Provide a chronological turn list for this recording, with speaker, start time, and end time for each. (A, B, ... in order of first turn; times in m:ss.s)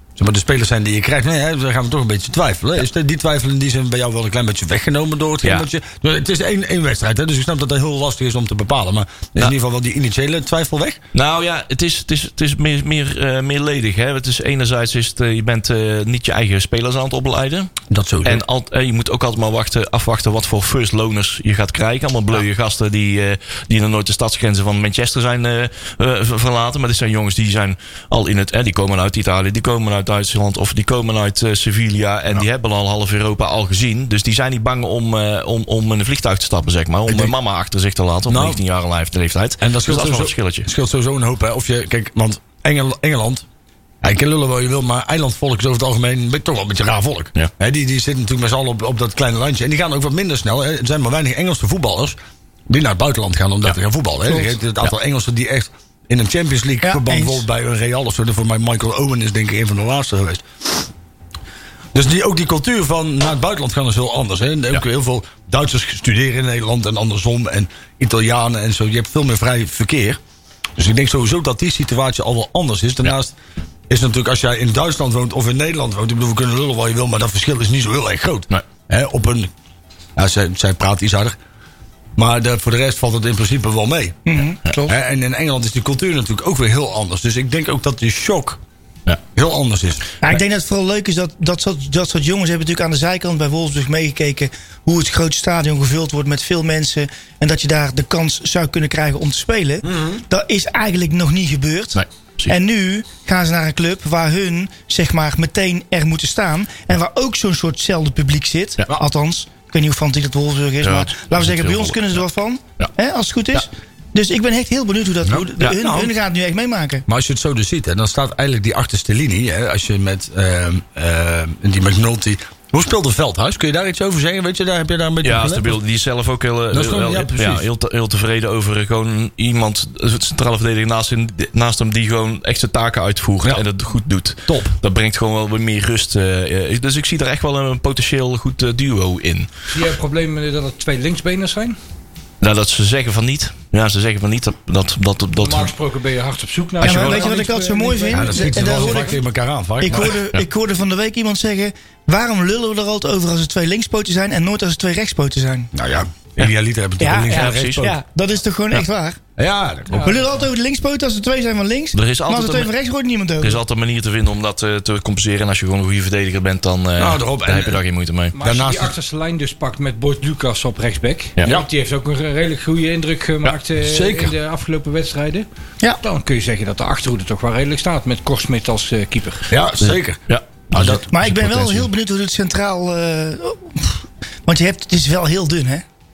0:00.2-0:11.0 A
0:11.1-0:17.7 B
0:17.9-0:18.4 A
0:18.2-0:40.7 B
0:37.1-0:37.3 A
0:38.3-0:38.6 A
0:39.6-0:43.4 A
0:44.0-0:52.2 A
0:52.7-1:00.9 A
0:56.8-0:57.5 C
1:01.9-1:10.2 A
1:10.8-1:13.4 A
1:13.9-1:19.5 A
1:20.2-1:21.4 A
1:22.2-1:24.2 A
1:24.3-1:24.9 C
1:24.9-1:28.6 A
1:29.4-1:30.1 A
1:30.2-1:57.0 C
1:39.8-1:40.2 A
1:42.0-1:42.5 B
1:50.8-1:52.2 B
1:55.2-1:56.1 A
1:57.1-2:05.8 A
2:05.2-2:19.5 B
2:06.7-2:07.7 A
2:14.5-2:14.7 A
2:19.7-2:21.8 D
2:22.4-2:25.7 B
2:25.4-2:29.2 D
2:26.8-2:29.2 C
2:26.8-2:27.2 B
2:28.1-2:30.2 A
2:29.8-2:35.7 C
2:30.0-2:30.4 B
2:35.7-2:38.0 A
2:37.0-2:39.2 C
2:37.3-2:37.9 B
2:39.4-2:40.2 A
2:39.9-2:40.4 D
2:40.0-2:43.6 C
2:41.9-2:42.7 B
2:43.4-2:48.4 B
2:47.0-2:47.8 A
2:48.3-2:55.5 D
2:48.4-2:49.0 A
2:53.8-2:54.3 A
2:56.0-2:59.5 D
2:59.5-3:00.2 A
2:59.8-3:01.9 B
3:00.7-3:01.0 A
3:01.1-3:05.8 C